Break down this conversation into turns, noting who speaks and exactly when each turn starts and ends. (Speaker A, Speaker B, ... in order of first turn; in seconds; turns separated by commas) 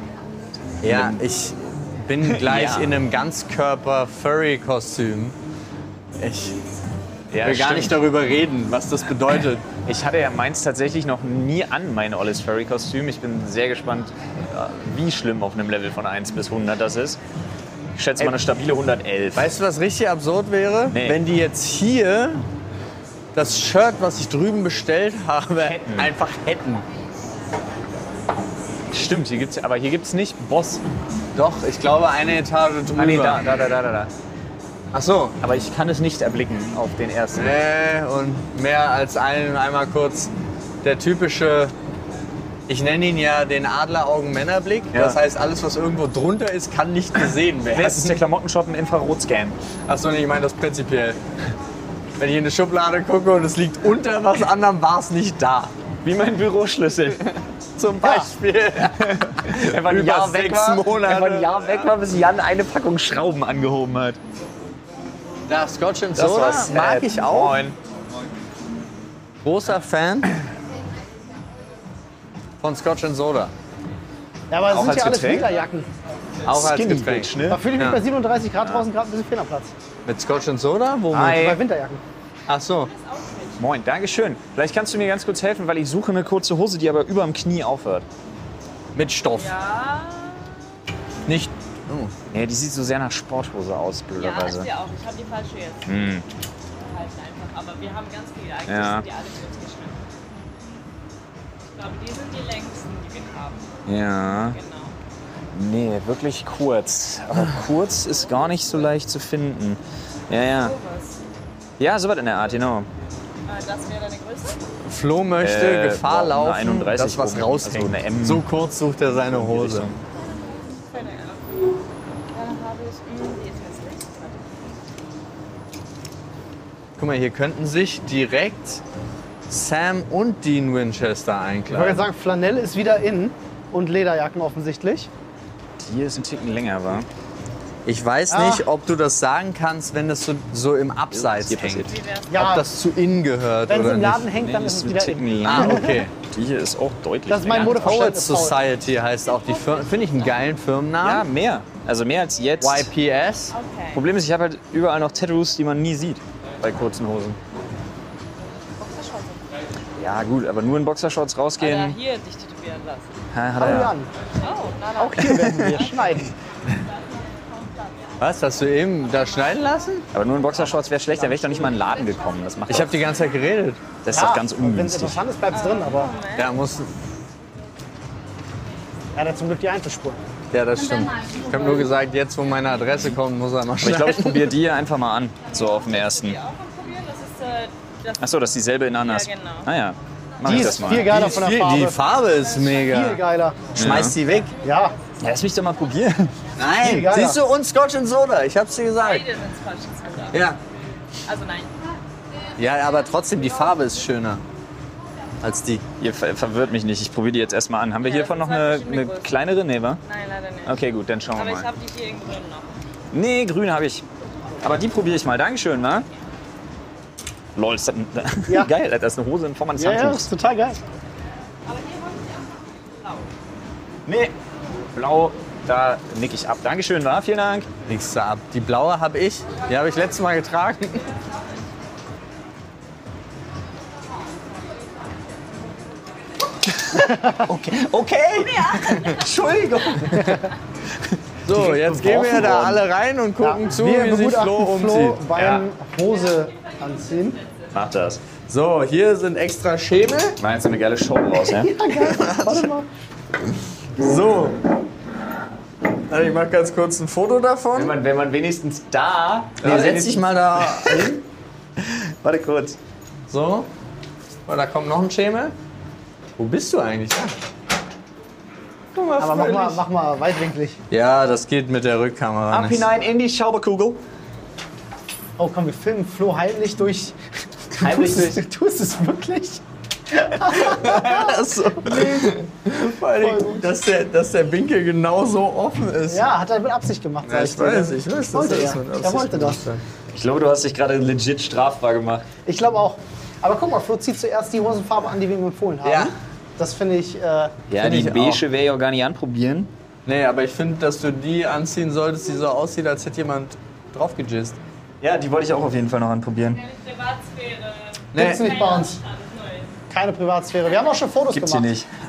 Speaker A: 0.8-5.3, Speaker B: 0.9-1.2, Speaker B: 2.2-3.0, Speaker A: 6.2-6.6, Speaker B: 7.3-8.0, Speaker A: 7.4-9.7, Speaker B: 9.8-17.2, Speaker B: 17.9-19.5, Speaker A: 19.3-22.4, Speaker B: 20.9-21.2, Speaker A: 23.3-26.8, Speaker B: 25.6-26.1, Speaker B: 28.9-30.8, Speaker A: 31.3-33.4, Speaker B: 32.9-34.1, Speaker A: 34.9-35.4, Speaker B: 35.4-37.6, Speaker A: 37.4-40.3, Speaker A: 40.8-41.7, Speaker A: 42.7-48.2, Speaker B: 44.9-45.2, Speaker B: 47.7-49.6, Speaker A: 49.9-51.2, Speaker A: 52.2-55.7, Speaker B: 56.0-57.2, Speaker A: 57.2-61.6, Speaker C: 58.0-58.3, Speaker B: 58.8-64.2, Speaker A: 65.5-67.6, Speaker B: 66.1-67.8, Speaker A: 69.4-70.3, Speaker A: 72.6-73.5, Speaker C: 74.5-75.9, Speaker B: 74.7-75.5, Speaker A: 76.5-78.0, Speaker B: 76.5-77.6, Speaker C: 77.5-79.7, Speaker A: 80.0-81.5, Speaker B: 81.1-81.6, Speaker C: 81.2-82.0, Speaker A: 82.5-82.9, Speaker D: 82.8-83.7, Speaker B: 83.6-88.0, Speaker A: 88.9-89.5, Speaker D: 89.3-90.5, Speaker A: 91.2-92.1, Speaker B: 92.3-94.7, Speaker D: 94.2-96.0, Speaker B: 95.8-96.2, Speaker D: 96.8-100.0, Speaker B: 98.7-99.0, Speaker D: 101.7-103.7, Speaker B: 103.8-104.6, Speaker D: 104.4-105.0, Speaker B: 105.5-110.8, Speaker D: 108.0-108.9, Speaker D: 110.5-111.2, Speaker B: 111.8-112.9, Speaker D: 113.4-114.6, Speaker A: 114.8-119.9, Speaker B: 115.4-118.5, Speaker B: 119.2-120.0, Speaker D: 120.3-121.7, Speaker D: 122.3-124.6, Speaker A: 127.0-128.8, Speaker A: 129.5-132.0, Speaker C: 131.7-135.1, Speaker B: 135.8-137.1, Speaker A: 137.8-144.3, Speaker C: 138.3-138.7, Speaker B: 141.1-142.0, Speaker D: 141.9-142.3, Speaker C: 142.3-142.7, Speaker C: 143.7-146.0, Speaker B: 144.3-148.0, Speaker A: 145.4-146.1, Speaker C: 147.3-148.6, Speaker A: 147.6-151.2, Speaker D: 149.2-150.4, Speaker B: 151.0-152.9, Speaker A: 152.6-153.5, Speaker D: 153.5-154.0, Speaker B: 153.9-157.4, Speaker D: 158.8-159.5, Speaker B: 159.9-162.0, Speaker D: 161.6-163.1, Speaker B: 163.3-163.9, Speaker C: 163.6-164.1, Speaker D: 164.3-166.2, Speaker C: 165.0-166.3, Speaker B: 165.2-165.7, Speaker D: 166.8-168.1, Speaker A: 168.2-170.1, Speaker B: 170.1-173.1, Speaker C: 171.0-171.8, Speaker A: 172.7-173.8, Speaker B: 174.0-175.2, Speaker C: 174.1-176.1, Speaker D: 175.5-176.5, Speaker A: 176.3-176.9, Speaker C: 179.1-180.2, Speaker A: 180.5-184.5, Speaker B: 183.8-186.4, Speaker D: 185.6-188.4, Speaker B: 188.2-191.3, Speaker D: 189.0-189.7, Speaker C: 190.4-192.0, Speaker A: 190.5-193.2, Speaker C: 192.8-193.6, Speaker B: 193.7-194.2, Speaker A: 193.7-194.5, Speaker C: 194.6-194.9, Speaker B: 195.2-196.3, Speaker A: 196.6-199.2, Speaker C: 196.8-197.4, Speaker D: 199.0-200.5, Speaker A: 200.3-200.6, Speaker D: 201.2-202.0, Speaker A: 202.6-204.4, Speaker A: 205.4-205.8, Speaker B: 206.0-210.0, Speaker D: 208.0-209.3, Speaker D: 210.0-210.8, Speaker B: 210.6-211.7, Speaker D: 211.3-212.8, Speaker B: 213.1-214.0, Speaker B: 214.6-216.1, Speaker B: 217.5-220.3, Speaker C: 219.8-220.8, Speaker D: 221.6-223.3, Speaker B: 224.1-224.3, Speaker B: 224.9-227.7, Speaker A: 227.9-231.1, Speaker B: 236.7-240.0, Speaker A: 238.5-240.4, Speaker D: 238.9-239.2, Speaker A: 241.4-245.2, Speaker B: 241.5-242.8, Speaker C: 243.4-247.4, Speaker B: 245.3-245.6, Speaker D: 246.0-247.8, Speaker B: 247.7-248.2, Speaker A: 248.5-250.4, Speaker B: 250.4-251.7, Speaker C: 251.4-252.9, Speaker A: 251.9-252.7, Speaker A: 253.9-254.6, Speaker A: 256.1-258.0, Speaker B: 257.7-261.0, Speaker A: 259.6-261.2, Speaker B: 261.9-262.8, Speaker A: 263.3-263.7, Speaker A: 264.5-265.5, Speaker A: 266.4-267.3, Speaker A: 268.9-269.8, Speaker C: 269.2-270.8, Speaker A: 270.9-272.8, Speaker B: 272.5-274.0, Speaker C: 275.4-277.1, Speaker C: 277.7-279.6, Speaker B: 277.8-278.4, Speaker C: 280.1-282.3, Speaker A: 280.4-286.2, Speaker C: 283.2-283.7, Speaker C: 286.1-289.6, Speaker A: 287.2-289.8, Speaker B: 290.1-292.3, Speaker C: 292.4-297.5, Speaker A: 295.8-296.1, Speaker B: 297.7-299.7, Speaker A: 297.8-298.4, Speaker A: 300.1-304.6, Speaker B: 305.0-306.6, Speaker D: 306.6-309.8, Speaker A: 308.1-308.4, Speaker C: 308.1-309.0, Speaker C: 309.9-311.7, Speaker B: 311.3-311.9